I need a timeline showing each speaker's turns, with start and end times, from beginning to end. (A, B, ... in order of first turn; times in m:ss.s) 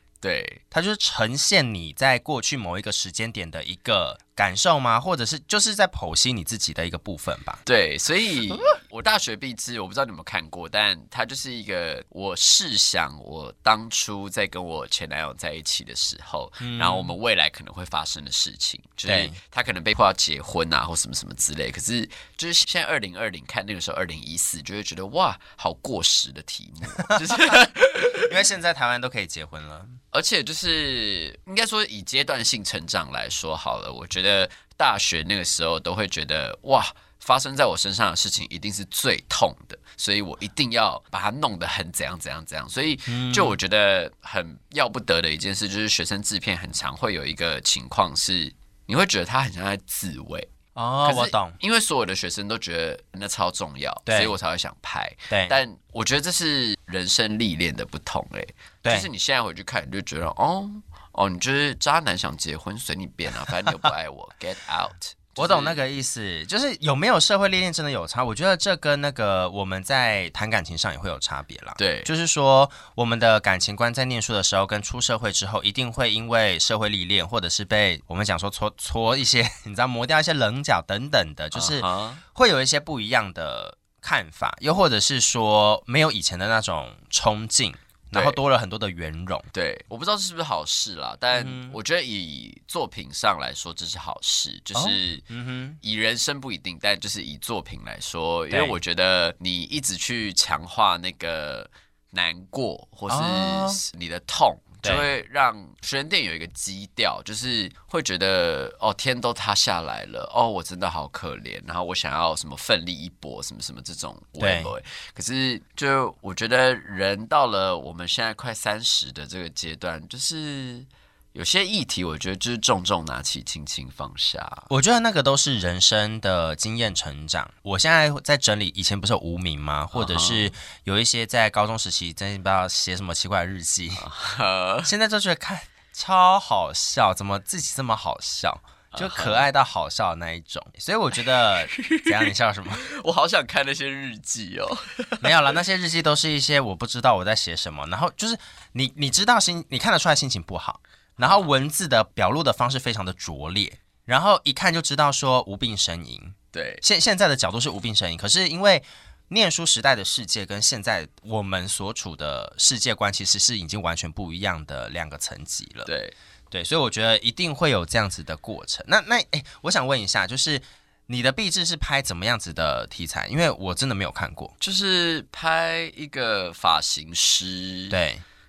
0:00.2-0:00.6 A
0:00.7-0:07.6 B
0:07.7-0:28.4 A
0:16.6-0:17.1 B
0:19.1-0:19.4 B
0:27.0-0:30.0 B
0:30.1-0:50.5 A
0:43.1-0:43.6 B
0:50.8-0:51.6 B
0:51.0-1:05.8 A
0:54.1-0:54.4 B
0:55.3-0:55.6 B
1:05.4-1:29.5 B
1:11.8-1:12.1 A
1:21.5-1:22.2 A
1:28.1-1:28.4 A
1:29.5-1:35.2 A
1:31.3-1:31.8 B
1:34.8-1:35.8 B
1:35.8-2:04.7 A
1:38.5-1:38.8 B
1:43.1-1:43.8 B
1:54.4-1:54.7 B
2:04.7-2:14.1 B
2:09.9-2:10.5 A
2:14.0-2:14.9 A
2:14.9-2:22.8 B
2:18.9-2:19.5 A
2:21.7-2:25.5 A
2:25.2-2:45.9 B
2:31.2-2:31.5 A
2:36.5-2:36.8 A
2:45.8-2:46.2 A
2:46.5-2:54.5 B
2:54.6-2:58.0 A
2:57.9-2:58.2 B